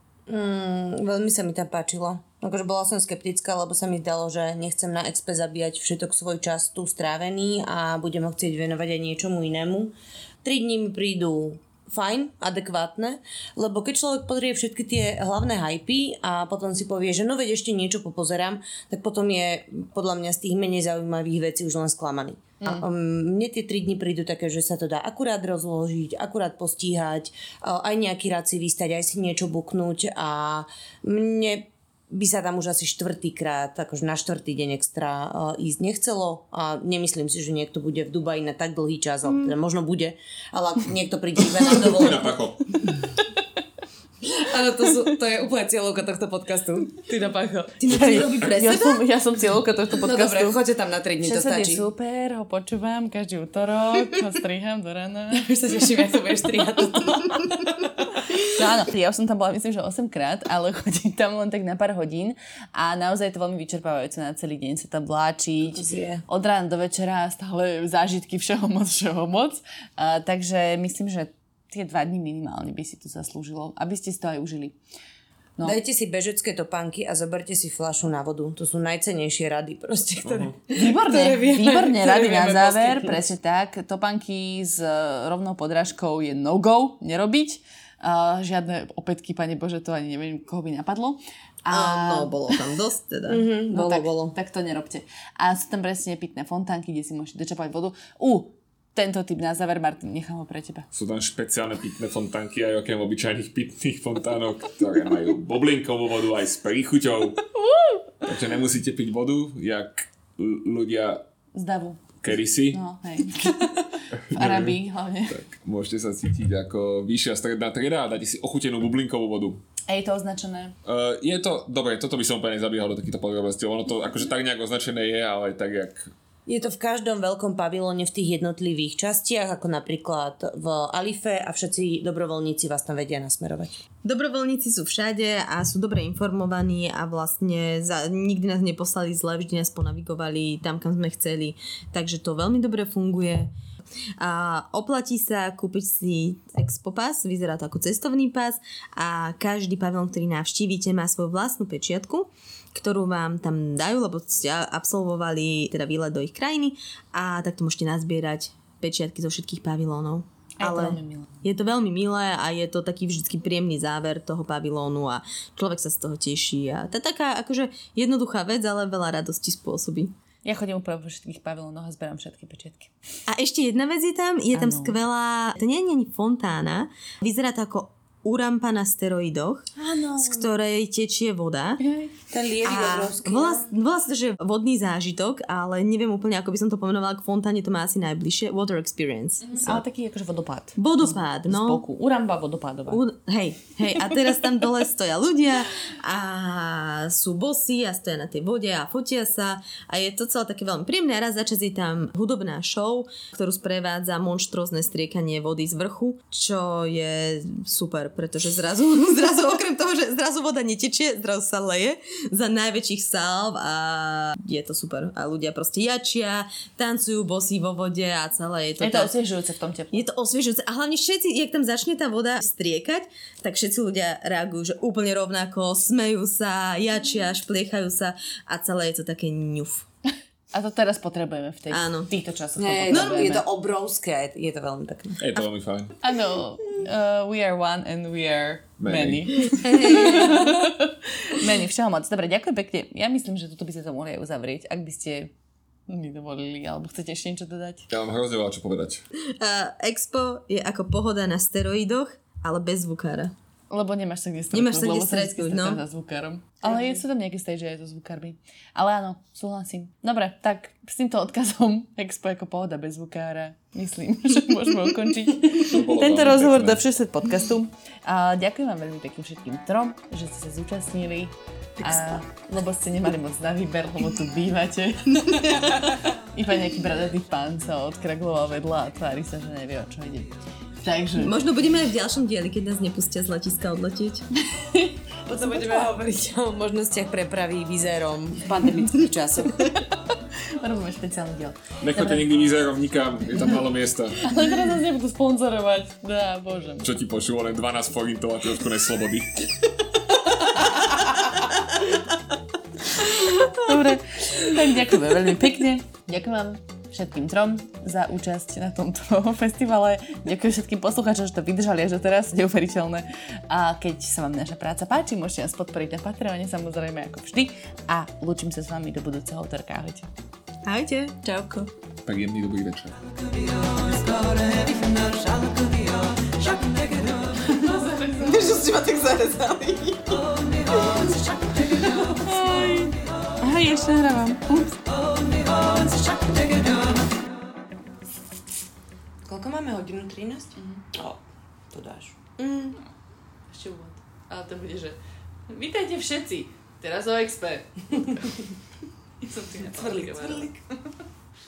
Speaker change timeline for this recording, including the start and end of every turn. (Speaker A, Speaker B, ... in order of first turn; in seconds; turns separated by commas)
Speaker A: 0.3-42.3, Speaker B: 41.6-42.9, Speaker A: 44.2-47.8, Speaker C: 47.8-49.0, Speaker D: 47.9-50.6, Speaker A: 50.0-51.8, Speaker D: 51.2-55.5, Speaker A: 55.3-57.5, Speaker D: 58.4-74.8, Speaker A: 65.7-66.2, Speaker A: 75.6-83.2, Speaker B: 80.2-80.5, Speaker D: 80.7-92.3, Speaker C: 91.7-93.4, Speaker A: 93.3-94.3, Speaker D: 93.7-100.9, Speaker B: 100.9-107.5, Speaker D: 107.6-108.0, Speaker B: 108.2-111.2, Speaker D: 111.5-112.0, Speaker B: 112.2-112.8, Speaker D: 112.7-115.4, Speaker B: 114.2-114.8, Speaker B: 115.3-119.6, Speaker D: 119.9-120.7, Speaker B: 120.8-126.1, Speaker A: 126.5-133.8, Speaker C: 134.0-143.5, Speaker C: 144.2-170.1, Speaker D: 160.6-161.3, Speaker D: 170.4-172.9, Speaker C: 173.3-181.8, Speaker D: 174.5-174.9, Speaker D: 179.8-180.4, Speaker D: 181.8-182.1, Speaker A: 182.3-183.7, Speaker C: 182.6-189.8, Speaker D: 189.4-193.0, Speaker C: 190.8-191.8, Speaker C: 192.9-219.1, Speaker D: 218.8-220.0, Speaker C: 219.9-229.8, Speaker D: 230.5-233.4, Speaker C: 231.7-232.1, Speaker A: 232.6-235.2, Speaker C: 232.9-233.2, Speaker B: 235.2-235.9, Speaker D: 236.0-245.3, Speaker B: 238.8-239.6, Speaker A: 239.7-240.4, Speaker D: 245.9-247.9, Speaker B: 247.9-249.0, Speaker C: 249.4-253.3, Speaker D: 253.7-281.4, Speaker C: 254.5-255.8, Speaker B: 265.6-266.8, Speaker C: 271.8-272.2, Speaker C: 281.2-284.2, Speaker A: 285.2-289.7, Speaker D: 290.6-292.2, Speaker B: 291.8-294.3, Speaker D: 294.2-296.9, Speaker B: 296.8-299.3, Speaker D: 303.5-320.1, Speaker C: 320.6-321.7, Speaker B: 322.1-323.0, Speaker C: 328.2-331.1, Speaker D: 332.2-334.8, Speaker A: 339.2-341.2, Speaker D: 340.6-340.8, Speaker A: 341.7-342.8, Speaker D: 343.5-347.7, Speaker D: 349.2-350.5, Speaker A: 349.6-350.6